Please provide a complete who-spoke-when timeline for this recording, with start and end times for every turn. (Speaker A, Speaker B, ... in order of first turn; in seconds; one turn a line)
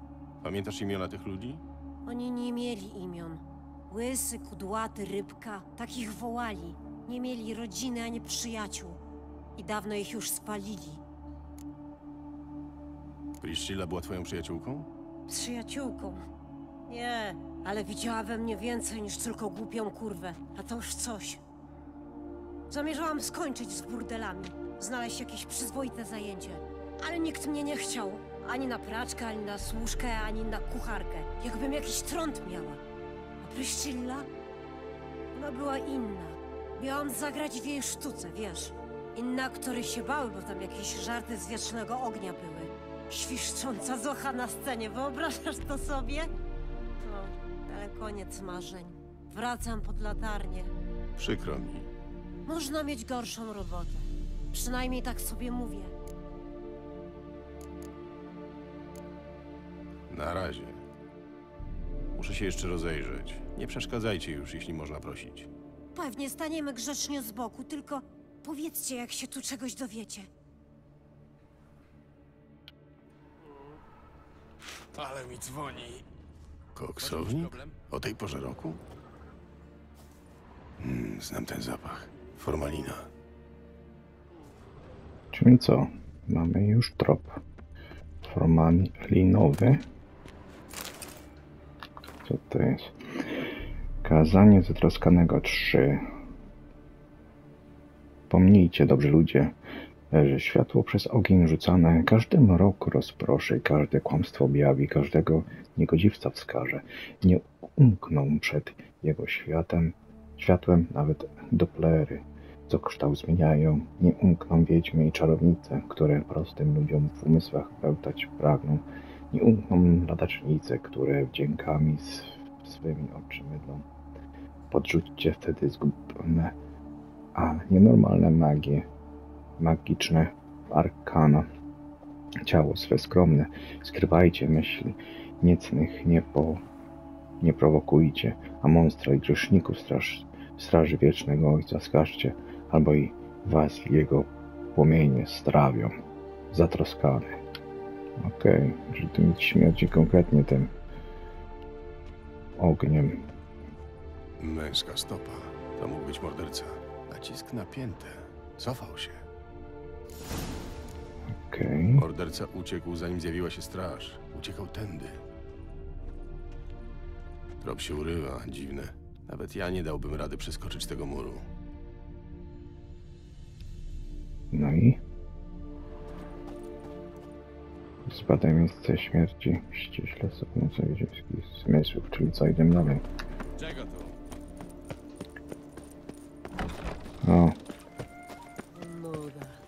Speaker A: 0.4-1.6
Speaker B: 2.1-9.0
Speaker B: 9.6-11.0
Speaker A: 13.4-14.9
Speaker B: 15.3-16.2
Speaker B: 16.9-21.4
Speaker B: 22.7-32.8
Speaker B: 33.4-34.3
Speaker B: 35.3-46.3
Speaker B: 47.0-50.7
Speaker A: 51.2-51.9
Speaker B: 52.5-55.9
Speaker A: 60.1-60.8
Speaker A: 62.1-65.5
Speaker B: 65.9-70.3
Speaker C: 74.9-76.0
Speaker A: 76.8-78.8
Speaker C: 77.0-77.8
Speaker A: 80.8-83.1
Speaker D: 85.3-87.4
Speaker D: 88.2-89.8
Speaker D: 92.2-93.4
Speaker D: 94.0-96.0
Speaker D: 98.3-99.6
Speaker D: 100.1-123.8
Speaker D: 124.7-126.6
Speaker D: 127.3-128.8
Speaker D: 129.6-131.5
Speaker D: 132.4-136.6
Speaker D: 137.4-145.9
Speaker D: 146.5-147.4
Speaker D: 148.2-150.7
Speaker D: 152.6-153.2
Speaker A: 154.4-159.2
Speaker D: 161.3-162.1
Speaker A: 161.9-165.2
Speaker A: 167.6-171.4
Speaker D: 174.5-175.0
Speaker D: 178.1-183.0
Speaker C: 183.6-184.1
Speaker D: 187.2-187.6
Speaker B: 188.8-189.4